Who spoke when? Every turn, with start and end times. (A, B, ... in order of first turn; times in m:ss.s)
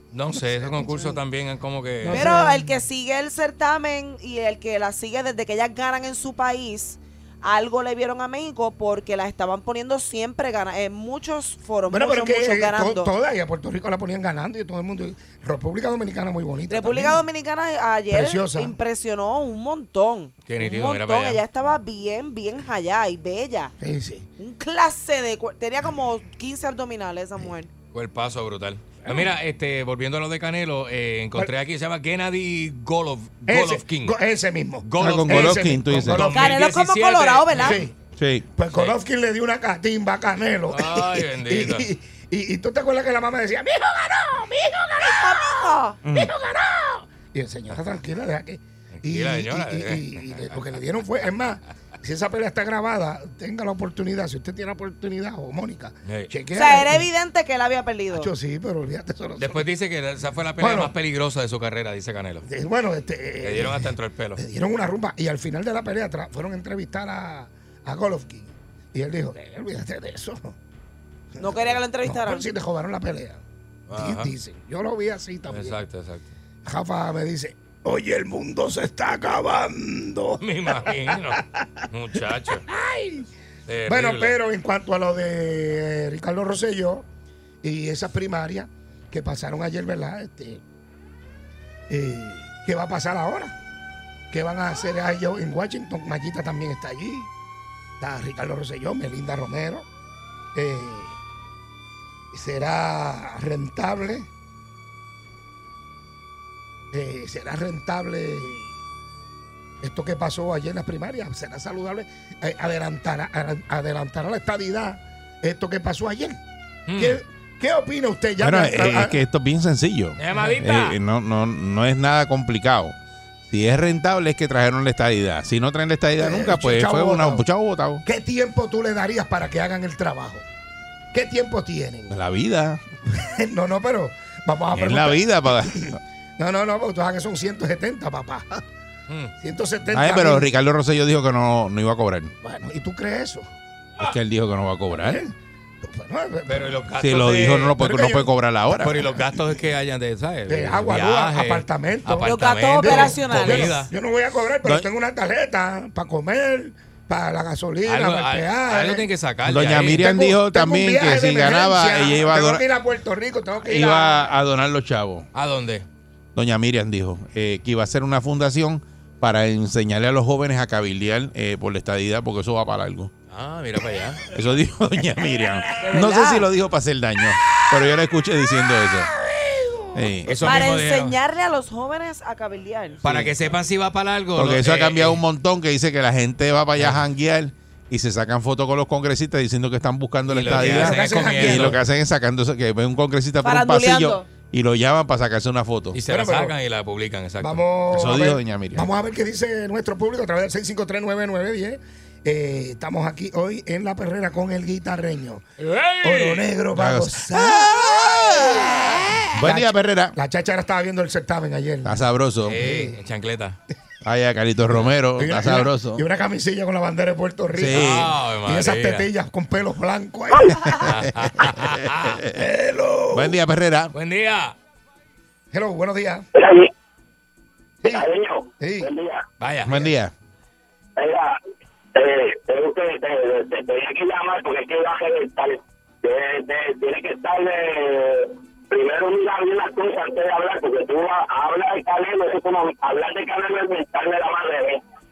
0:00.1-0:02.2 A
0:00.3-0:01.2 B
0:02.0-0:02.8 B
0:02.1-0:13.1 C
0:11.9-0:17.2 B
0:16.7-0:23.7 C
0:18.1-0:18.8 B
0:20.4-0:21.4 A
0:23.8-0:24.3 B
0:24.4-0:27.7 C
0:27.9-0:34.2 A
0:33.5-0:36.6 B
0:34.8-0:37.8 A
0:35.0-0:36.3 D
0:36.2-0:37.8 C
0:37.5-0:38.0 B
0:38.2-0:38.5 D
0:38.5-0:57.1 B
0:38.7-0:39.0 A
0:40.7-0:41.9 A
0:45.0-0:46.0 C
0:46.0-0:46.3 D
0:48.9-0:50.8 A
0:56.5-0:58.3 C
0:58.1-0:59.7 B
0:59.4-1:02.4 A
1:00.6-1:01.0 B
1:02.4-1:10.5 B
1:03.4-1:04.4 A
1:11.4-1:13.4 B
1:11.4-1:12.4 C
1:13.9-1:14.3 A
1:13.9-1:15.8 B
1:15.5-1:16.3 A
1:16.6-1:21.8 B
1:20.4-1:22.6 A
1:22.6-1:23.3 B
1:23.7-1:24.4 A
1:23.8-1:27.0 B
1:27.6-1:30.6 B
1:31.9-1:33.5 B
1:34.3-1:37.3 B
1:38.0-1:39.8 B
1:40.5-1:41.1 B
1:42.3-1:44.3 B
1:46.9-1:48.7 B
1:49.8-1:56.4 B
1:56.9-1:57.2 A
1:57.0-1:59.2 B
1:58.4-2:03.0 D
2:00.2-2:01.0 A
2:03.5-2:08.0 D
2:06.2-2:07.4 B
2:08.0-2:10.4 B
2:11.1-2:12.2 B
2:12.1-2:12.8 D
2:13.1-2:18.6 B
2:14.7-2:16.0 D
2:19.4-2:20.5 B
2:19.9-2:22.3 D
2:22.4-2:23.5 B
2:24.0-2:25.2 D
2:24.9-2:26.8 B
2:26.5-2:27.8 A
2:27.0-2:29.1 D
2:27.8-2:28.3 B
2:28.7-2:33.9 A
2:30.4-2:39.1 B
2:32.2-2:33.8 C
2:34.6-2:34.9 D
2:37.8-2:40.0 A
2:39.4-2:42.6 D
2:39.9-2:44.3 B
2:43.6-2:45.3 D
2:45.3-2:45.8 A
2:46.3-2:53.1 D
2:53.3-2:54.2 A
2:54.3-2:59.1 D
2:55.8-2:56.5 C
2:59.4-3:03.1 C
2:59.9-3:00.6 D
3:00.2-3:01.2 A
3:03.0-3:05.2 A
3:03.0-3:03.3 D
3:04.3-3:16.0 D
3:06.8-3:07.0 A
3:10.3-3:11.8 A
3:10.5-3:11.8 B
3:13.4-3:14.3 C
3:15.9-3:18.0 A
3:16.1-3:16.6 B
3:17.4-3:25.4 B
3:17.9-3:18.9 D
3:25.6-3:26.5 A
3:26.0-3:28.5 B
3:26.7-3:28.2 D
3:29.3-3:32.0 B
3:29.3-3:30.2 D
3:31.8-3:32.6 D
3:32.4-3:33.6 A
3:32.6-3:33.0 B
3:34.0-3:36.0 D
3:34.7-3:40.9 B
3:37.5-3:38.1 D
3:37.7-3:39.1 A
3:40.8-3:42.2 A
3:41.4-3:42.2 D
3:42.3-3:43.4 B
3:43.1-3:43.9 D
3:43.9-3:44.6 A
3:45.5-3:46.2 B
3:46.3-3:46.7 E
3:47.8-3:48.9 B
3:47.8-3:49.2 E
3:49.4-3:49.8 A
3:49.6-3:50.1 D
3:51.0-3:51.4 E
3:51.9-4:04.8 E